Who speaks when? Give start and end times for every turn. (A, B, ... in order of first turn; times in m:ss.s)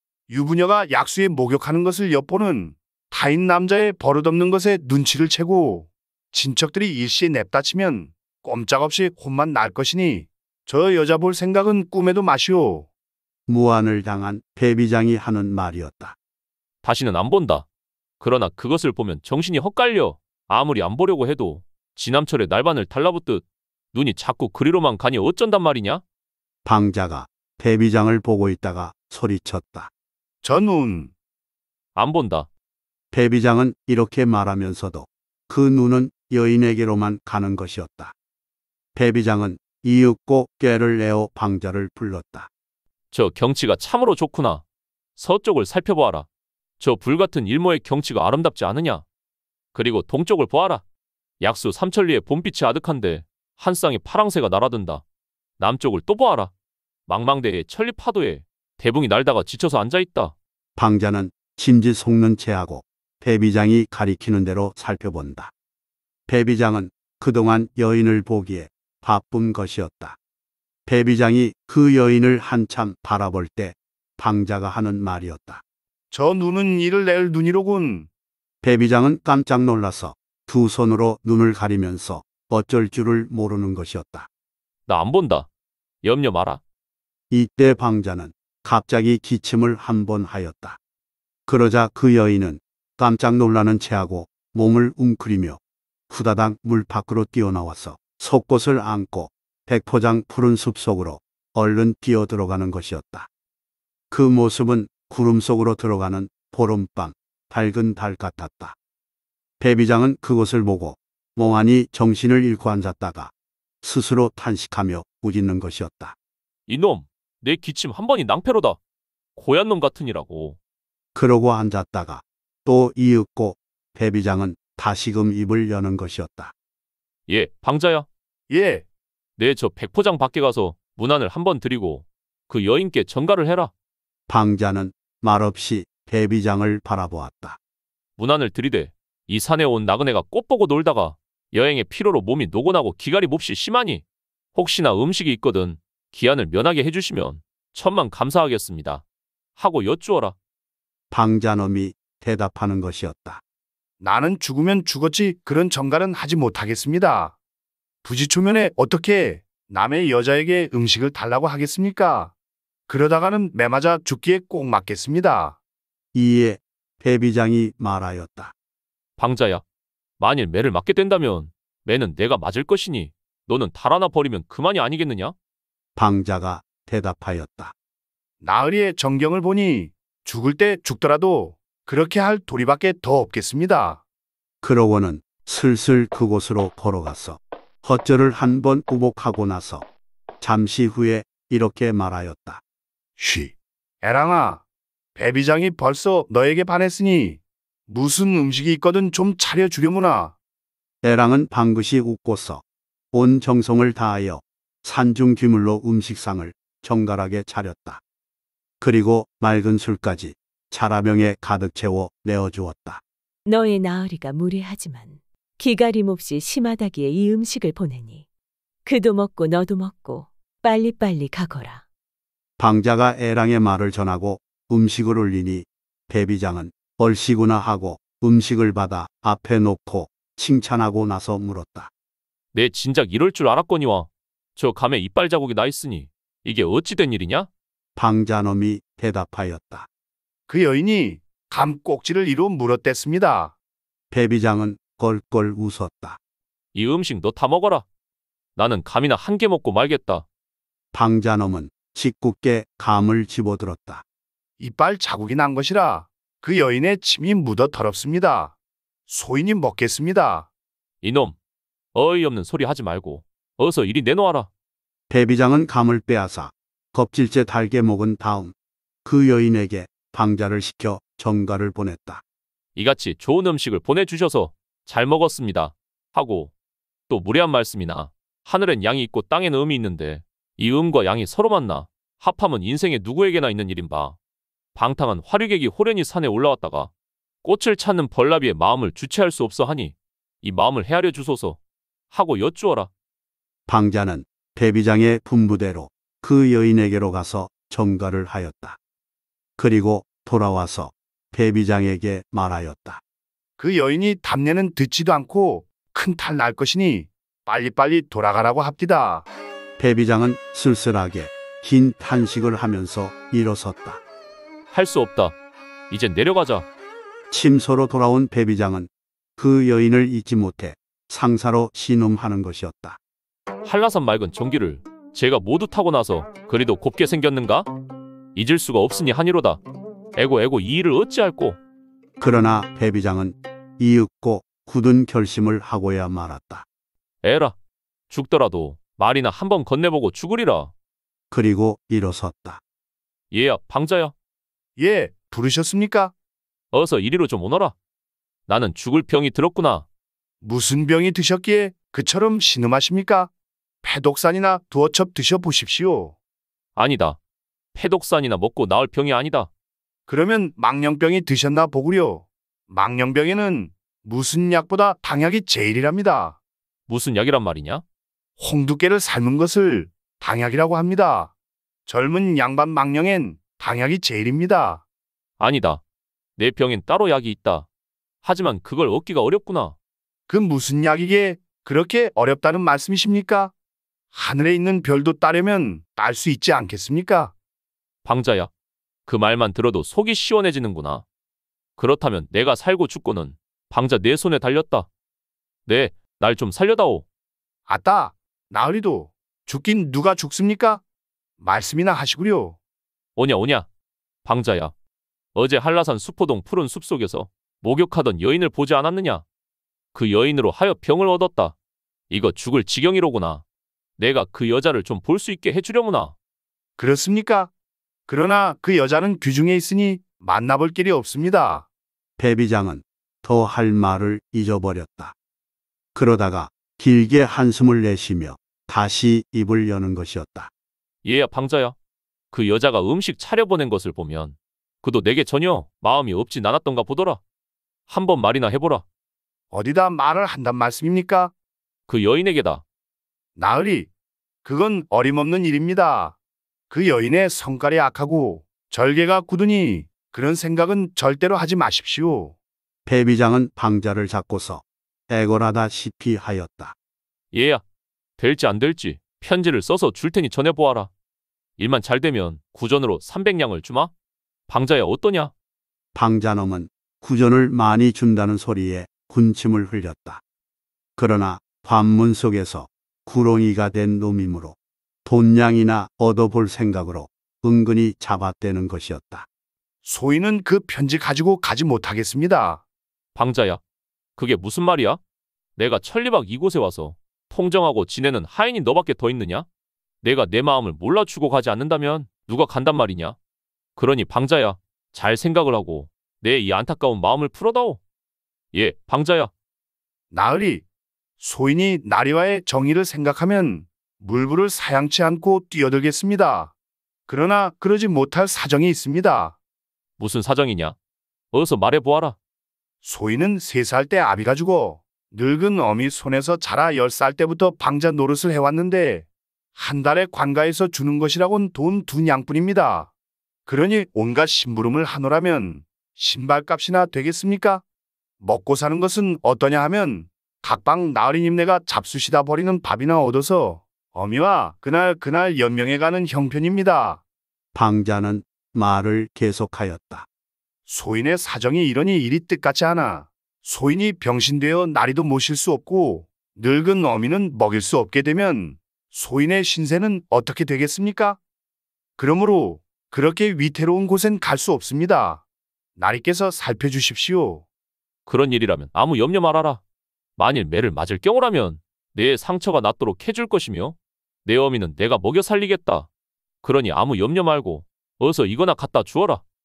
0:00.3-0:12.9 A
0:13.5-0:16.2 B
0:16.8-0:17.7 C
0:18.2-0:26.0 C
0:26.6-0:29.9 B
0:30.4-0:31.1 A
0:32.0-0:32.5 C
0:33.1-0:38.2 B
0:39.0-0:42.5 B
0:43.1-0:44.6 C
0:45.2-0:46.3 C
0:46.8-0:49.0 C
0:49.7-0:50.8 C
0:51.4-0:55.0 C
0:55.6-0:56.5 C
0:57.1-1:00.3 C
1:00.8-1:05.5 B
1:06.3-1:10.2 B
1:10.9-1:15.6 B
1:16.1-1:18.1 A
1:18.6-1:24.3 B
1:24.9-1:25.5 C
1:26.0-1:26.6 C
1:27.3-1:30.8 B
1:31.5-1:43.3 B
1:44.1-1:48.8 B
1:49.6-1:53.3 B
1:53.8-1:56.2 B
1:56.7-1:58.8 C
1:59.4-2:00.6 C
2:01.1-2:06.5 B
2:07.3-2:08.1 C
2:08.5-2:08.8 A
2:09.4-2:13.7 C
2:14.3-2:17.6 B
2:18.2-2:24.0 C
2:24.6-2:29.0 C
2:29.6-2:30.4 C
2:31.1-2:33.4 B
2:34.0-2:37.4 A
2:38.0-2:42.3 A
2:42.9-2:45.6 A
2:46.1-2:48.5 B
2:49.2-2:49.6 C
2:50.2-2:55.4 C
2:56.0-2:57.7 B
2:58.4-3:04.0 A
3:04.6-3:09.8 B
3:10.4-3:12.6 B
3:13.2-3:14.6 A
3:15.2-3:20.3 A
3:21.0-3:28.0 B
3:28.8-3:33.0 B
3:33.5-3:38.2 D
3:38.8-3:41.8 D
3:42.6-3:51.9 B
3:52.5-3:57.5 C
3:58.0-3:59.9 B
4:00.5-4:03.5 A
4:04.1-4:06.2 B
4:06.7-4:07.8 C
4:08.6-4:10.2 C
4:10.9-4:14.0 B
4:14.6-4:18.6 A
4:19.1-4:20.5 A
4:21.0-4:21.4 C
4:21.9-4:24.5 C
4:25.1-4:32.2 B
4:32.8-4:36.5 C
4:37.1-4:44.2 C
4:44.8-4:46.9 C
4:47.4-4:51.6 C
4:52.1-4:52.9 C
4:53.7-4:58.8 B
4:59.6-5:03.0 B
5:03.6-5:09.3 A
5:09.8-5:14.0 B
5:14.7-5:15.4 C
5:15.9-5:16.7 C
5:17.3-5:23.0 B
5:23.6-5:27.7 C
5:28.4-5:29.6 C
5:30.2-5:31.6 C
5:32.2-5:36.6 B
5:37.2-5:37.6 C
5:38.1-5:40.7 C
5:41.3-5:42.6 B
5:43.3-5:44.1 C
5:44.8-5:46.1 A
5:46.7-5:47.7 C
5:48.5-5:49.8 C
5:50.4-5:53.3 A
5:53.8-5:56.2 A
5:56.8-5:57.2 C
5:57.8-5:59.5 C
6:00.1-6:06.4 A
6:06.9-6:07.8 C
6:08.4-6:11.3 A
6:11.9-6:14.8 A
6:15.4-6:15.8 C
6:16.4-6:17.7 C
6:18.2-6:19.8 C
6:20.3-6:23.5 A
6:24.1-6:27.3 A
6:28.0-6:28.5 C
6:29.1-6:31.0 C
6:31.8-6:34.9 C
6:35.7-6:37.0 C
6:37.7-6:40.8 A
6:41.4-6:42.6 A
6:43.2-6:43.7 C
6:44.2-6:44.7 C
6:45.4-6:49.2 C
6:49.9-6:51.6 C
6:52.1-6:53.4 C
6:54.0-6:56.2 C
6:56.8-6:57.5 A
6:58.1-7:01.7 A
7:02.2-7:05.1 B
7:05.9-7:10.5 B
7:11.0-7:11.8 C
7:12.3-7:17.2 C
7:17.9-7:18.8 C
7:19.5-7:21.3 A
7:21.9-7:22.6 C
7:23.4-7:23.9 A
7:24.4-7:26.2 A
7:26.7-7:32.4 A
7:32.9-7:36.8 B
7:37.3-7:37.6 C
7:38.2-7:40.9 C
7:41.6-7:43.9 C
7:44.5-7:45.3 C
7:45.9-7:50.2 B
7:51.0-7:59.3 B
7:59.8-8:02.6 A
8:03.2-8:03.6 C
8:04.2-8:05.0 C
8:05.6-8:09.5 C
8:10.0-8:13.2 C
8:13.8-8:17.8 C
8:18.5-8:19.3 C
8:20.1-8:20.6 A
8:21.2-8:26.5 A
8:27.1-8:29.4 A
8:30.0-8:30.8 C
8:31.3-8:32.2 C
8:32.8-8:42.9 A
8:43.5-8:47.6 A
8:48.2-8:57.0 A
8:57.5-9:00.1 B
9:00.7-9:11.2 A
9:12.0-9:15.2 A
9:15.8-9:17.4 A
9:18.1-9:19.6 C
9:20.2-9:25.9 C
9:26.4-9:29.2 C